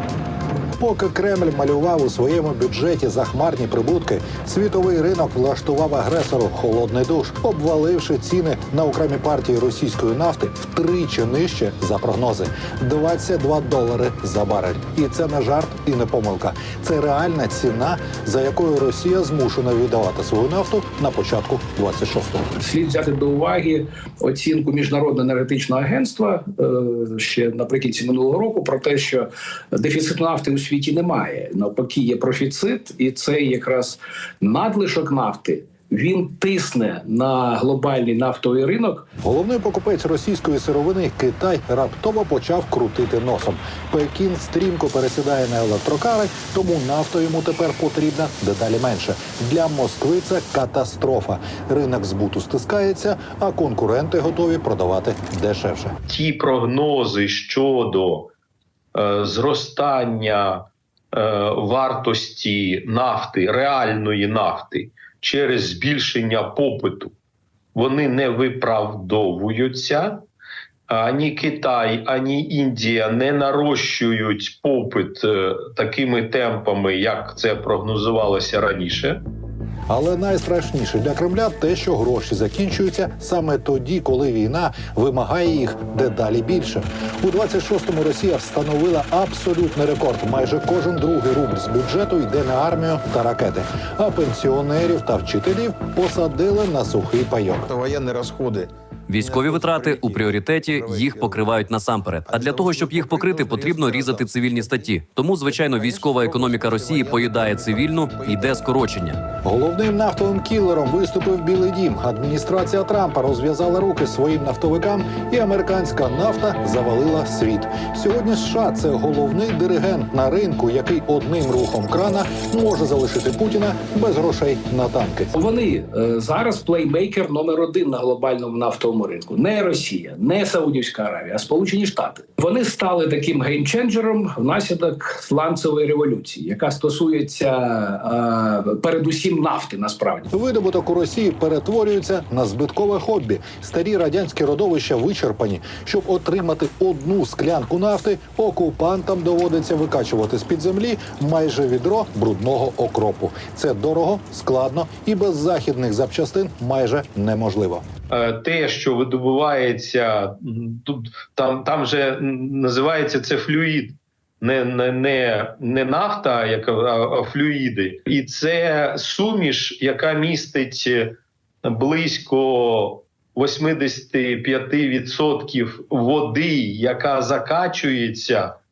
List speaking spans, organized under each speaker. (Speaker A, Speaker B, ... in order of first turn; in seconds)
Speaker A: 0.8-22.5, 39.2-55.9, 79.9-97.7, 109.4-125.3, 140.3-157.8
Speaker B: 22.6-39.0, 125.3-140.3
Speaker C: 56.1-58.3, 58.9-67.1, 67.7-70.2, 70.9-79.2, 158.1-178.6
Speaker D: 97.7-101.6, 102.3-104.9, 105.6-108.6
Speaker E: 99.1-109.2